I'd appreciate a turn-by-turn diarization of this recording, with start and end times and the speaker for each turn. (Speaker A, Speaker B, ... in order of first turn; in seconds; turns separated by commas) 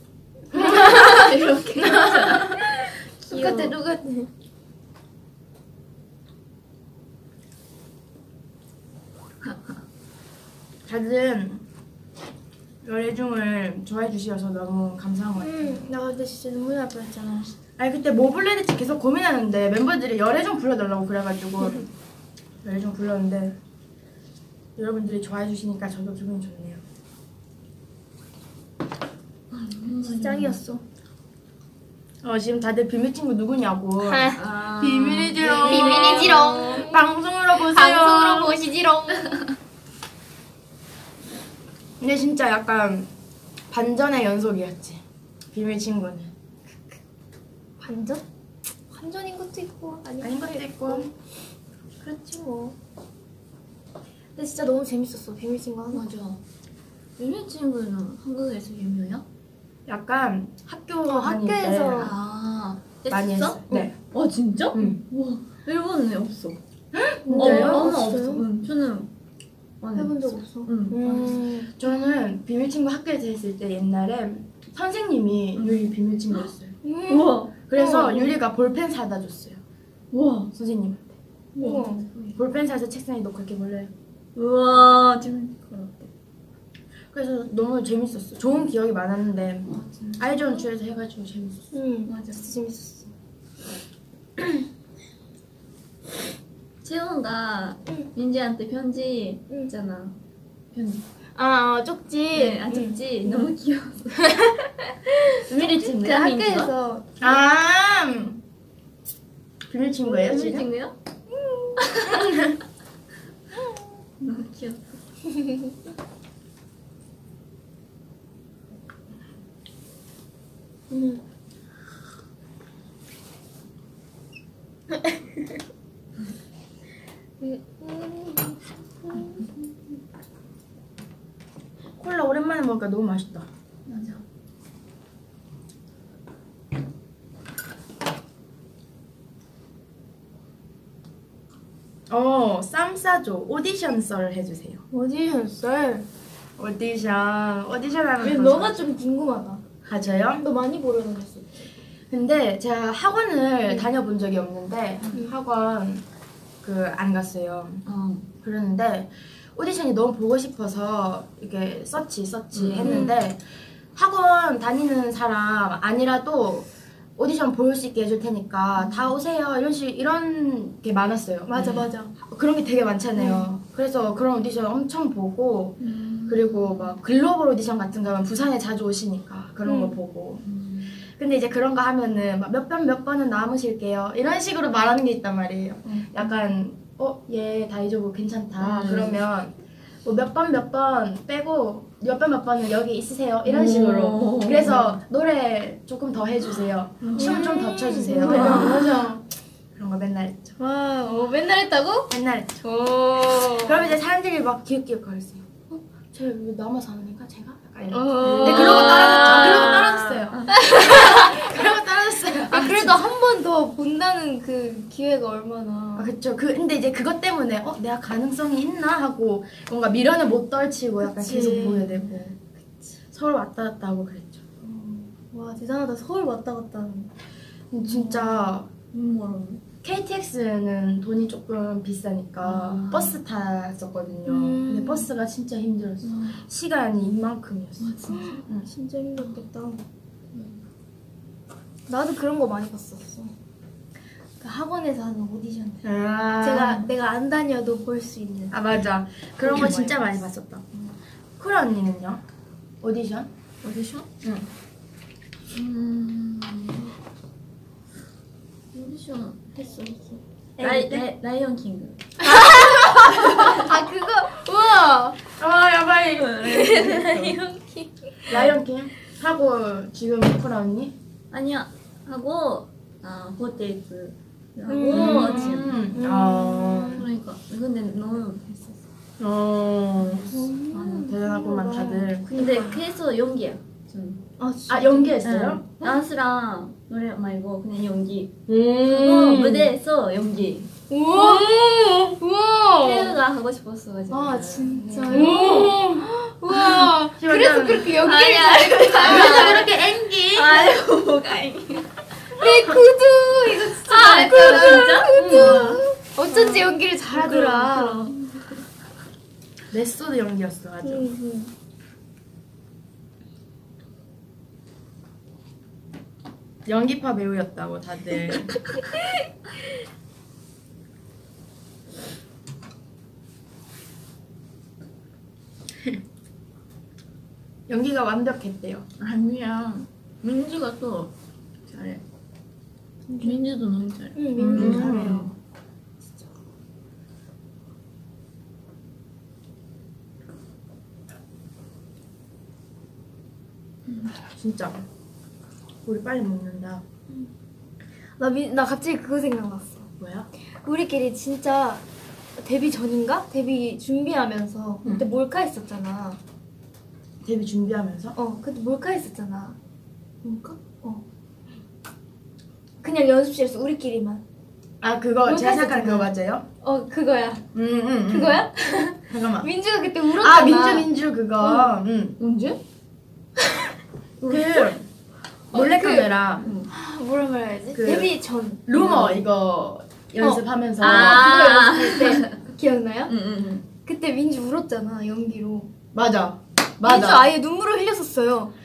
Speaker A: 0.5-1.3, Speaker B: 0.5-1.3, Speaker C: 0.5-3.8, Speaker A: 1.8-4.3, Speaker B: 10.9-11.7, Speaker B: 12.8-15.9, Speaker A: 15.4-17.5, Speaker B: 17.8-21.9, Speaker B: 22.6-23.6, Speaker B: 24.8-26.8, Speaker C: 29.5-30.6, Speaker A: 30.1-30.8, Speaker B: 32.2-38.6, Speaker A: 34.0-34.5, Speaker C: 34.4-36.9, Speaker A: 35.4-37.0, Speaker A: 37.6-39.5, Speaker B: 42.0-43.1, Speaker B: 43.7-46.3, Speaker A: 47.8-48.2, Speaker A: 48.9-51.1, Speaker B: 50.2-51.1, Speaker A: 52.0-52.8, Speaker A: 54.4-56.0, Speaker C: 55.9-56.4, Speaker C: 57.2-59.2, Speaker B: 59.9-62.1, Speaker A: 61.1-62.1, Speaker C: 62.0-66.6, Speaker B: 63.1-63.9, Speaker B: 64.7-65.0, Speaker B: 66.9-68.0, Speaker A: 67.2-68.4, Speaker C: 67.3-69.1, Speaker C: 69.8-71.4, Speaker A: 70.0-71.7, Speaker B: 71.7-76.7, Speaker C: 75.6-76.4, Speaker A: 76.8-78.3, Speaker C: 77.1-77.5, Speaker B: 77.7-79.6, Speaker C: 80.1-80.5, Speaker B: 80.5-81.0, Speaker A: 81.6-82.1, Speaker C: 81.6-82.4, Speaker B: 82.3-83.9, Speaker C: 84.3-86.1, Speaker B: 87.1-91.7, Speaker C: 89.7-90.7, Speaker A: 91.7-93.1, Speaker C: 92.1-92.5, Speaker C: 96.8-100.2, Speaker C: 100.7-101.0, Speaker A: 101.4-103.0, Speaker C: 102.3-104.5, Speaker A: 104.2-107.2, Speaker C: 105.5-106.7, Speaker B: 105.5-106.1, Speaker B: 107.2-108.4, Speaker B: 109.7-110.7, Speaker C: 110.1-111.0, Speaker A: 111.3-111.8, Speaker C: 111.8-112.3, Speaker B: 112.1-112.5, Speaker C: 114.2-115.0, Speaker A: 115.3-115.7, Speaker A: 120.9-121.2, Speaker A: 124.9-125.3, Speaker A: 127.4-129.5, Speaker B: 132.0-133.5, Speaker C: 133.9-134.2, Speaker B: 142.1-144.8, Speaker A: 144.9-146.1, Speaker B: 146.6-148.9, Speaker A: 148.2-149.6, Speaker B: 149.9-150.4, Speaker A: 150.4-151.5, Speaker B: 152.1-156.1, Speaker C: 155.0-155.3, Speaker B: 156.6-157.8, Speaker C: 157.9-158.3, Speaker B: 158.4-163.4, Speaker C: 162.5-163.1, Speaker A: 162.8-163.2, Speaker B: 163.9-180.4, Speaker C: 168.8-169.2, Speaker A: 171.5-172.1, Speaker C: 171.6-171.9, Speaker A: 173.2-173.5, Speaker C: 175.8-177.0, Speaker A: 179.7-180.0, Speaker C: 180.4-181.0, Speaker B: 181.1-198.9, Speaker C: 185.8-186.5, Speaker C: 188.6-189.2, Speaker C: 193.4-194.9, Speaker C: 197.0-197.4, Speaker A: 197.2-199.2, Speaker C: 198.1-199.0, Speaker B: 199.8-200.6, Speaker A: 200.6-202.1, Speaker B: 202.1-202.7, Speaker A: 202.6-203.9, Speaker B: 203.5-205.5, Speaker B: 206.1-213.1, Speaker A: 207.9-211.5, Speaker C: 208.2-210.6, Speaker A: 212.4-216.1, Speaker B: 216.0-222.4, Speaker A: 221.0-222.0, Speaker B: 223.1-224.4, Speaker A: 224.6-227.1, Speaker B: 227.7-228.7, Speaker A: 227.9-228.5, Speaker C: 228.9-229.6, Speaker B: 229.8-238.7, Speaker C: 232.4-233.2, Speaker A: 234.3-235.1, Speaker C: 236.0-236.4, Speaker C: 237.8-238.4, Speaker A: 238.1-239.8, Speaker C: 240.3-240.7, Speaker A: 241.9-243.3, Speaker A: 244.4-245.9, Speaker B: 245.8-246.9, Speaker A: 246.4-248.6, Speaker B: 248.5-250.7, Speaker A: 249.4-249.9, Speaker B: 251.4-252.2, Speaker B: 252.8-253.3, Speaker C: 253.6-254.1, Speaker B: 254.2-254.5, Speaker C: 255.5-257.0, Speaker C: 258.7-263.7, Speaker B: 260.6-261.1, Speaker A: 262.2-265.2, Speaker B: 262.3-263.6, Speaker B: 265.4-266.5, Speaker C: 266.1-267.4, Speaker A: 266.4-268.4, Speaker C: 268.3-268.6, Speaker B: 268.3-270.9, Speaker C: 271.3-275.9, Speaker A: 274.7-277.1, Speaker B: 274.9-277.1, Speaker C: 276.8-278.9, Speaker B: 279.2-280.3, Speaker C: 280.0-281.2, Speaker A: 280.3-282.8, Speaker B: 281.0-282.3, Speaker C: 282.3-284.2, Speaker A: 284.4-285.2, Speaker B: 284.7-285.6, Speaker C: 285.2-290.7, Speaker B: 288.5-289.7, Speaker A: 290.9-293.2, Speaker B: 291.1-292.1, Speaker C: 292.8-295.4, Speaker A: 294.1-299.9, Speaker B: 295.1-296.1, Speaker B: 296.9-298.0, Speaker C: 297.9-302.0, Speaker B: 299.0-300.7, Speaker A: 302.4-308.0, Speaker C: 303.8-308.6, Speaker B: 305.2-305.8, Speaker B: 309.7-311.1, Speaker A: 310.8-311.5, Speaker B: 316.7-318.6, Speaker B: 327.7-328.9, Speaker C: 329.0-331.1, Speaker C: 331.7-332.0, Speaker A: 333.1-333.4, Speaker C: 333.2-335.3, Speaker A: 334.1-335.3, Speaker B: 334.5-335.2, Speaker C: 343.9-344.1, Speaker B: 344.3-344.9, Speaker B: 345.9-346.8, Speaker A: 348.2-349.9, Speaker B: 350.0-350.3, Speaker A: 350.6-351.8, Speaker A: 352.4-356.2, Speaker B: 357.2-358.1, Speaker A: 358.1-359.6, Speaker A: 360.2-361.0, Speaker A: 362.8-364.2, Speaker B: 364.8-366.5, Speaker A: 365.2-367.4, Speaker B: 367.5-368.5, Speaker A: 368.1-370.9, Speaker B: 369.1-369.5, Speaker B: 370.2-372.2, Speaker C: 372.2-372.6, Speaker B: 374.2-374.9, Speaker C: 374.3-374.7, Speaker B: 375.5-376.5, Speaker A: 375.5-376.1, Speaker C: 376.4-376.7, Speaker A: 376.7-378.6, Speaker B: 377.7-378.1, Speaker B: 378.7-381.4, Speaker C: 378.7-379.2, Speaker A: 380.2-383.1, Speaker C: 380.8-382.4, Speaker C: 383.1-383.7, Speaker A: 383.9-385.7, Speaker B: 385.9-387.3, Speaker A: 386.8-388.5